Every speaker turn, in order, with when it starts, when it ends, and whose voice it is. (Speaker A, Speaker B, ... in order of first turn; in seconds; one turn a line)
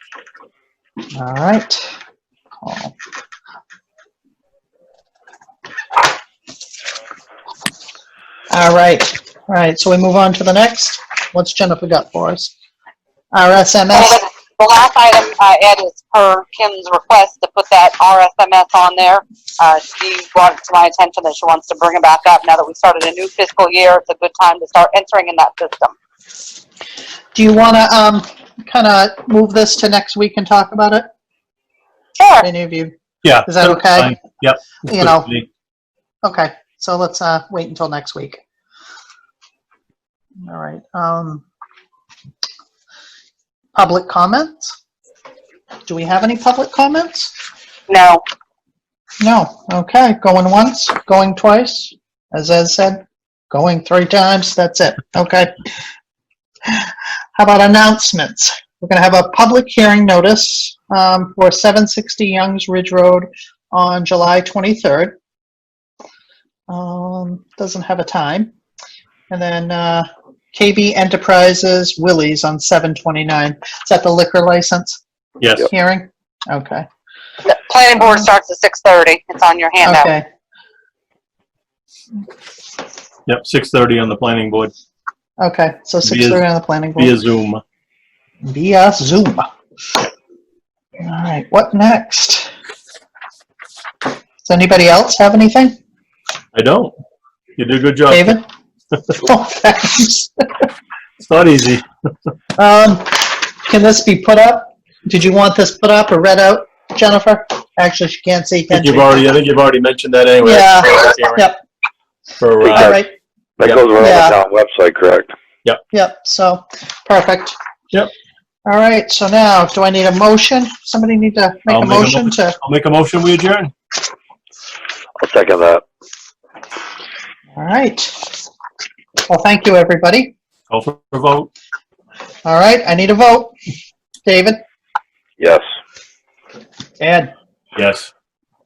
Speaker A: 1.1-1.9
Speaker A: 2.6-2.9
Speaker A: 8.5-12.5
Speaker A: 13.3-14.2
Speaker B: 13.9-25.9
Speaker A: 27.3-31.1
Speaker B: 32.2-32.5
Speaker A: 32.4-34.2
Speaker C: 33.2-35.5
Speaker A: 34.9-35.3
Speaker A: 36.2-38.4
Speaker A: 40.4-41.4
Speaker A: 43.8-44.7
Speaker A: 45.9-47.3
Speaker B: 47.9-48.2
Speaker A: 49.2-55.5
Speaker A: 56.7-65.2
Speaker A: 66.7-68.5
Speaker A: 69.3-75.0
Speaker C: 75.4-75.7
Speaker A: 75.6-76.9
Speaker B: 77.4-80.1
Speaker A: 79.8-80.2
Speaker C: 83.3-84.7
Speaker A: 85.4-87.2
Speaker C: 86.0-86.4
Speaker C: 87.0-87.6
Speaker A: 88.4-89.5
Speaker A: 91.0-92.5
Speaker A: 94.4-95.7
Speaker C: 96.5-96.9
Speaker C: 97.6-98.4
Speaker A: 98.1-98.5
Speaker A: 99.2-100.4
Speaker C: 101.2-101.8
Speaker A: 102.6-109.2
Speaker C: 108.7-111.4
Speaker A: 110.4-111.6
Speaker C: 112.4-113.0
Speaker D: 112.6-113.0
Speaker A: 112.7-113.1
Speaker D: 113.6-115.3
Speaker A: 114.0-114.4
Speaker A: 115.9-117.6
Speaker A: 118.7-122.6
Speaker C: 121.7-123.7
Speaker D: 125.2-125.8
Speaker A: 127.5-128.2
Speaker A: 129.3-130.3
Speaker C: 130.7-131.5
Speaker A: 132.4-133.5
Speaker A: 134.2-134.6
Speaker D: 135.4-135.6
Speaker A: 137.0-137.3
Speaker C: 137.8-138.1